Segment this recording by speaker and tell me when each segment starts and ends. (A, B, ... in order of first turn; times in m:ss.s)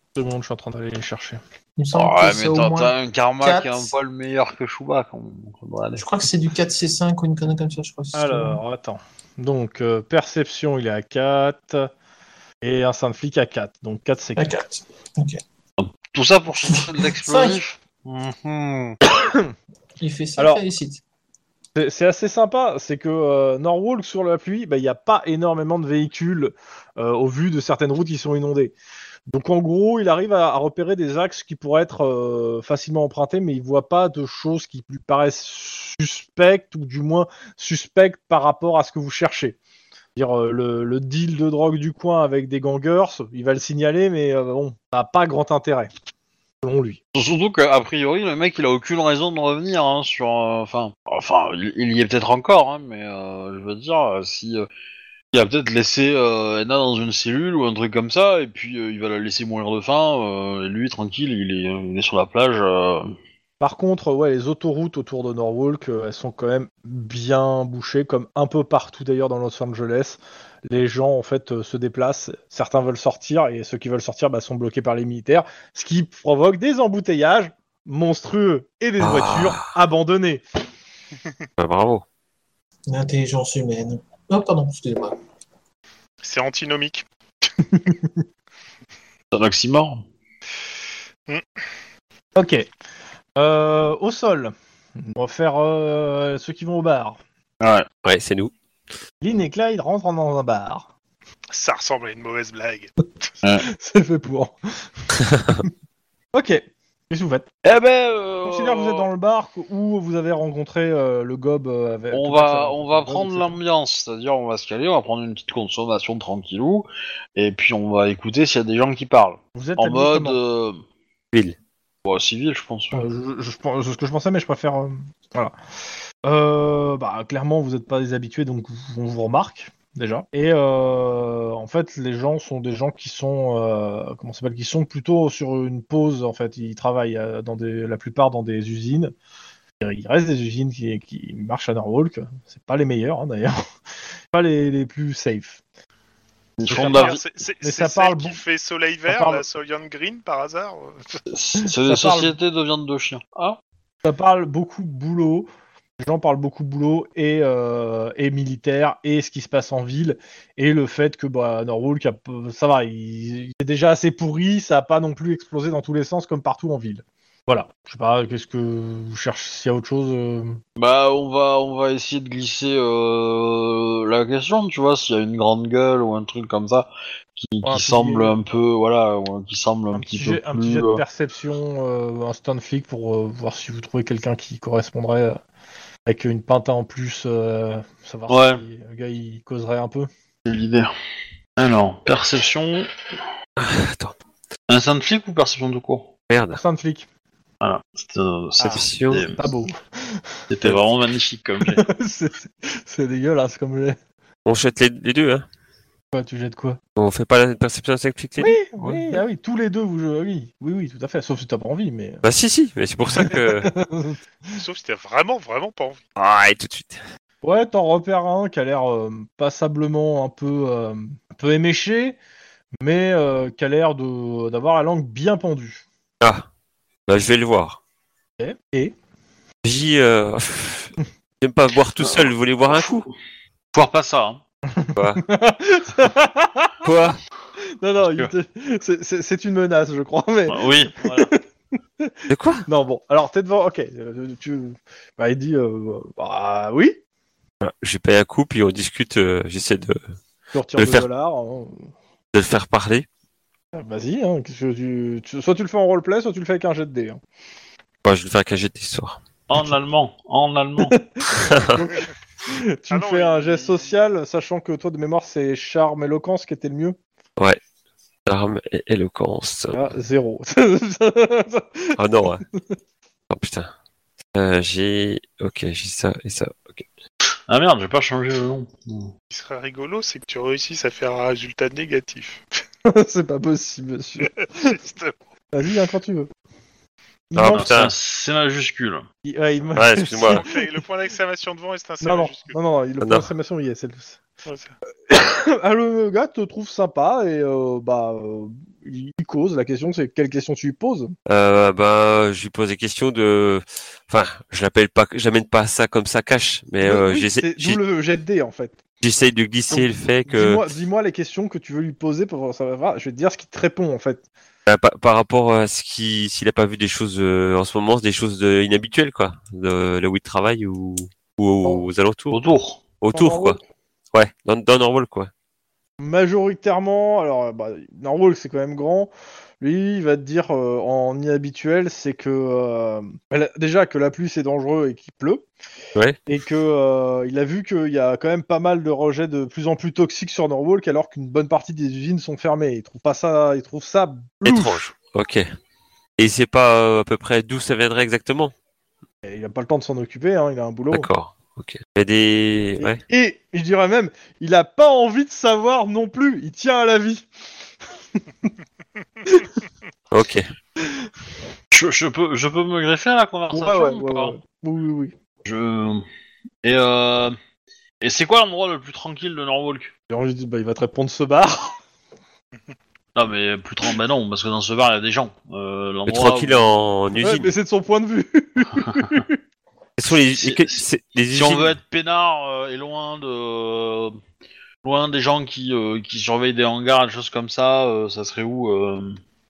0:00.2-0:01.4 A
0:01.8-0:03.9 B
0:01.9-0:06.1 C
0:06.0-0:08.6 B
0:08.1-0:11.9 A
0:12.6-0:14.6 A
0:14.4-0:15.4 B
0:15.8-0:19.0 C
0:16.7-0:17.6 B
0:20.0-0:21.0 B
0:20.4-0:20.6 A
0:21.7-0:28.7 A
0:29.3-0:39.6 A
0:40.1-0:45.9 A
0:46.6-0:47.0 A
0:47.1-0:54.7 C
0:55.3-1:03.1 C
1:03.6-1:20.4 A
1:19.0-1:19.7 D
1:21.6-1:22.0 D
1:22.9-1:25.2 B
1:26.2-1:27.0 E
1:27.7-1:28.0 A
1:29.3-1:30.0 C
1:32.3-1:32.7 A
1:33.4-1:34.5 A
1:35.0-1:37.2 A
1:37.6-1:37.9 C
1:38.0-1:38.5 D
1:39.2-1:40.8 A
1:41.5-1:42.9 E
1:43.6-1:45.7 A
1:46.3-1:47.4 A
1:47.6-1:49.1 C
1:48.4-1:53.6 A
1:52.1-2:00.8 C
1:59.5-2:00.4 A
2:02.0-2:03.0 C
2:02.9-2:05.5 A
2:06.2-2:19.1 A
2:19.8-2:23.6 A
2:24.3-2:25.6 A
2:26.6-2:27.2 C
2:26.7-2:31.2 E
2:26.7-2:28.4 A
2:29.1-2:29.4 A
2:31.3-2:33.6 C
2:31.6-2:32.3 A
2:34.0-2:35.5 A
2:36.0-2:50.6 A
2:50.8-3:01.0 C
2:57.6-2:58.3 A
2:59.9-3:05.4 A
3:06.0-3:10.1 A
3:08.3-3:08.6 C
3:10.4-3:10.9 C
3:11.6-3:12.9 C
3:13.6-3:14.1 D
3:14.7-3:16.1 C
3:16.3-3:16.6 D
3:16.5-3:17.0 A
3:17.6-3:19.4 C
3:18.6-3:20.8 A
3:18.7-3:19.2 D
3:20.5-3:21.8 C
3:21.6-3:24.0 A
3:24.4-3:25.4 D
3:26.1-3:26.8 A
3:27.0-3:28.6 D
3:28.4-3:32.2 A
3:28.8-3:29.1 C
3:32.2-3:33.7 D
3:33.0-3:34.6 A
3:34.5-3:36.0 E
3:36.2-3:37.0 D
3:37.4-3:42.2 A
3:42.8-3:45.8 A
3:46.2-3:46.4 D
3:47.1-3:47.8 D
3:48.4-3:48.9 A
3:49.6-3:53.1 D
3:52.0-3:53.1 C
3:53.7-3:54.4 C
3:54.8-3:56.9 A
3:54.9-3:55.2 D
3:56.8-3:57.2 D
3:57.8-4:01.4 A
4:00.5-4:01.3 C
4:02.3-4:02.6 D
4:02.6-4:07.0 A
4:07.6-4:10.0 D
4:10.5-4:11.9 A
4:10.8-4:11.0 D
4:12.3-4:13.0 D
4:13.7-4:17.2 A
4:18.0-4:19.2 D
4:19.5-4:21.0 C
4:20.8-4:27.0 A
4:21.3-4:21.8 D
4:22.9-4:23.9 E
4:28.3-4:29.8 D
4:29.7-4:32.3 A
4:32.0-4:32.4 D
4:33.3-4:33.7 D
4:34.3-4:36.8 D
4:37.5-4:39.1 C
4:39.3-4:42.4 E
4:42.8-4:44.8 A
4:44.2-4:45.1 E
4:45.5-4:46.3 A
4:47.3-4:47.8 A
4:47.4-4:47.9 D
4:47.4-4:49.1 C
4:49.2-4:50.6 A
4:49.7-4:50.4 D
4:50.1-4:52.5 E
4:52.0-4:54.2 A
4:54.4-4:54.7 E
4:55.1-5:01.1 A
5:01.3-5:07.8 D
5:06.8-5:08.8 A
5:09.0-5:10.6 D
5:09.7-5:14.2 A
5:14.7-5:22.4 D
5:22.3-5:22.8 C
5:23.0-5:23.6 D
5:23.1-5:23.6 A
5:24.1-5:25.3 D
5:26.0-5:35.4 A
5:36.2-5:44.8 A
5:44.4-5:45.4 D
5:46.2-5:48.5 D
5:49.2-5:51.1 A
5:50.9-5:53.0 D
5:52.8-5:57.3 A
6:00.1-6:00.5 D
6:01.7-6:04.4 C
6:03.5-6:05.1 A
6:05.4-6:06.0 C
6:06.6-6:07.4 C
6:08.0-6:09.9 C
6:10.1-6:11.8 A
6:13.2-6:16.7 C
6:16.1-6:17.5 D
6:17.2-6:19.4 A
6:20.0-6:21.7 D
6:20.2-6:24.2 C
6:24.8-6:29.2 C